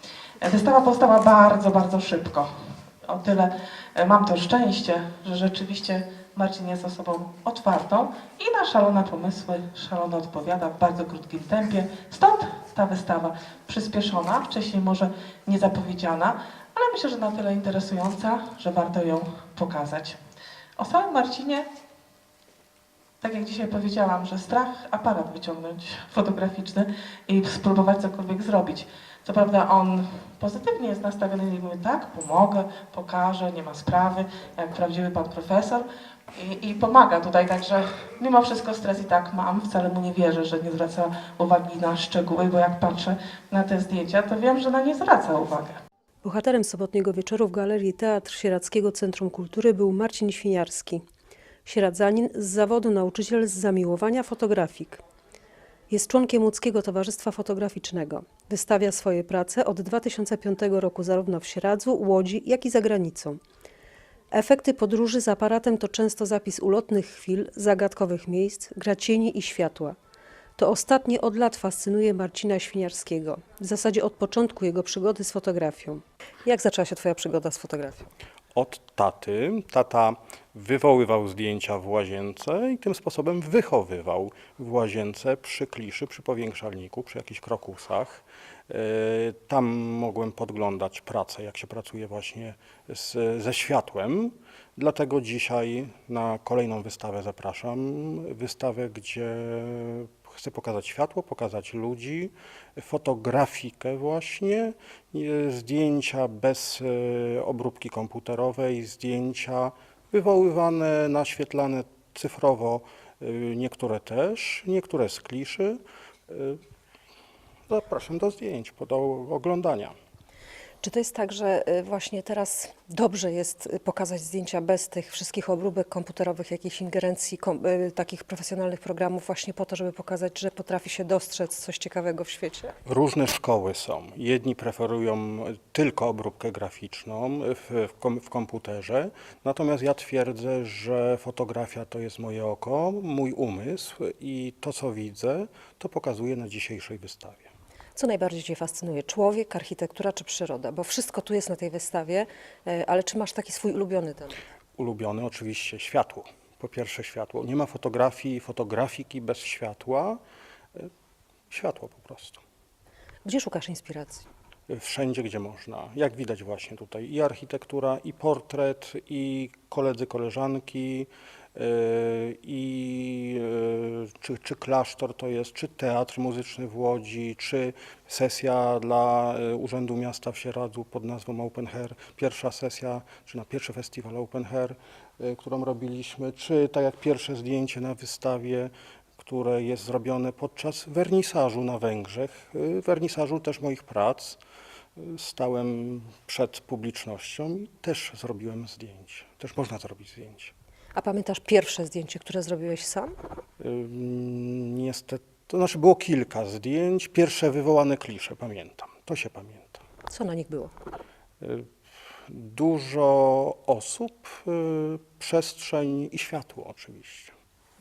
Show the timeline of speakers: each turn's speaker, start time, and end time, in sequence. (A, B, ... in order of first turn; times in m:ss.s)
0:00.4-0:02.5 A
0:03.0-0:20.2 A
0:20.8-0:21.7 A
0:23.2-0:45.8 A
0:46.2-0:51.0 B
0:51.6-0:55.0 B
0:55.9-1:03.4 B
1:04.3-1:10.0 B
1:10.6-1:18.1 B
1:18.5-1:56.6 C
1:57.7-2:00.0 C
2:00.8-2:12.8 B
2:12.9-2:27.5 C
2:28.0-2:34.4 B
2:34.8-2:40.2 C
2:41.5-2:42.4 C
2:43.2-2:44.2 B
2:44.7-3:14.4 C
3:15.0-3:20.5 C
3:21.0-3:23.2 B
3:23.6-3:29.8 C
3:30.1-3:30.7 B
3:31.4-3:31.7 C
3:32.3-3:37.4 C